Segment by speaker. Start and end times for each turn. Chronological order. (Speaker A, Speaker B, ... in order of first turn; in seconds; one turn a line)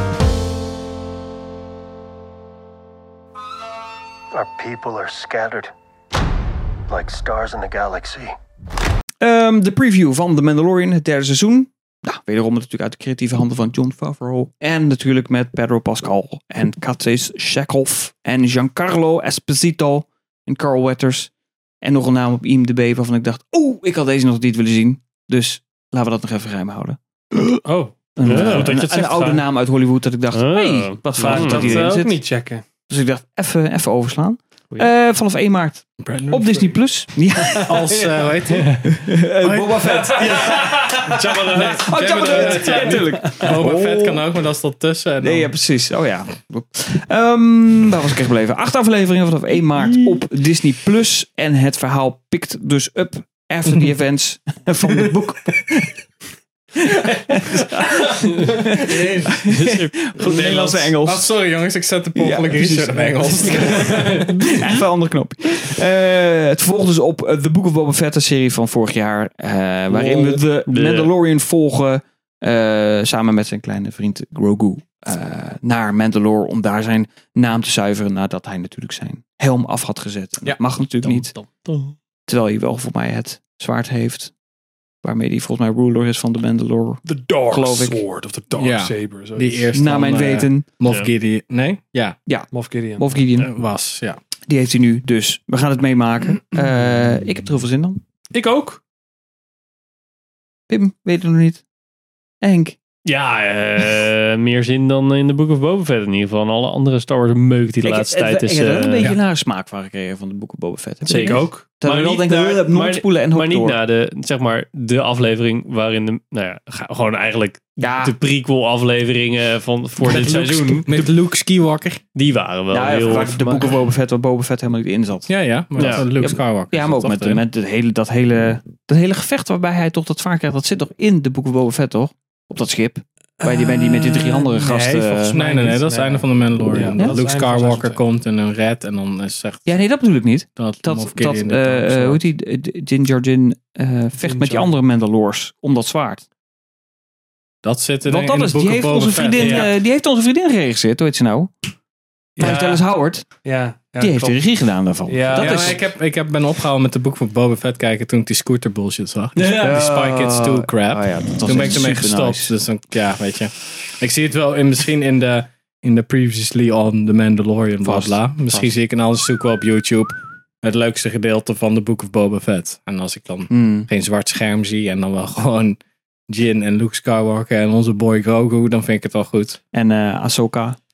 Speaker A: 4.3-5.7
Speaker A: 6.9-8.3
Speaker B: 9.2-21.3
Speaker B: 21.8-27.6
Speaker C: 27.6-29.4
Speaker B: 28.1-32.2
Speaker D: 28.2-28.8
Speaker D: 30.3-31.9
Speaker C: 31.1-32.6
Speaker B: 32.9-37.8
Speaker E: 36.0-36.8
Speaker E: 37.6-45.5
Speaker C: 37.8-38.8
Speaker B: 38.8-40.8
Speaker C: 41.1-43.9
Speaker B: 41.8-44.0
Speaker B: 45.2-56.0
Speaker B: 56.8-61.3
Speaker D: 58.1-60.5
Speaker E: 58.8-59.5
Speaker E: 60.1-64.4
Speaker B: 62.1-81.3
Speaker D: 70.0-71.1
Speaker D: 81.0-81.9
Speaker B: 82.3-84.3
Speaker B: 85.0-88.0
Speaker C: 87.0-89.7
Speaker E: 88.5-92.2
Speaker B: 89.7-90.7
Speaker B: 92.3-93.5
Speaker C: 92.5-93.1
Speaker E: 93.3-94.2
Speaker B: 94.5-98.0
Speaker C: 98.3-98.8
Speaker B: 100.7-101.6
Speaker B: 102.4-102.8
Speaker D: 103.0-109.1
Speaker B: 107.8-113.8
Speaker D: 111.0-121.1
Speaker C: 111.1-111.5
Speaker B: 117.8-118.1
Speaker E: 120.0-122.0
Speaker D: 122.1-123.7
Speaker B: 122.7-135.4
Speaker E: 125.3-127.4
Speaker D: 125.8-126.0
Speaker C: 133.4-138.0
Speaker E: 135.3-139.8
Speaker B: 139.7-146.2
Speaker E: 140.6-142.2
Speaker C: 144.2-144.7
Speaker E: 147.6-149.7
Speaker B: 148.0-151.5
Speaker C: 149.4-149.7
Speaker C: 152.4-152.8
Speaker B: 152.4-153.4
Speaker C: 153.4-154.4
Speaker B: 154.0-155.8
Speaker C: 155.1-155.8
Speaker E: 155.4-179.6
Speaker D: 159.3-159.8
Speaker B: 159.7-162.6
Speaker B: 167.8-168.7
Speaker B: 173.5-173.9
Speaker B: 179.7-180.8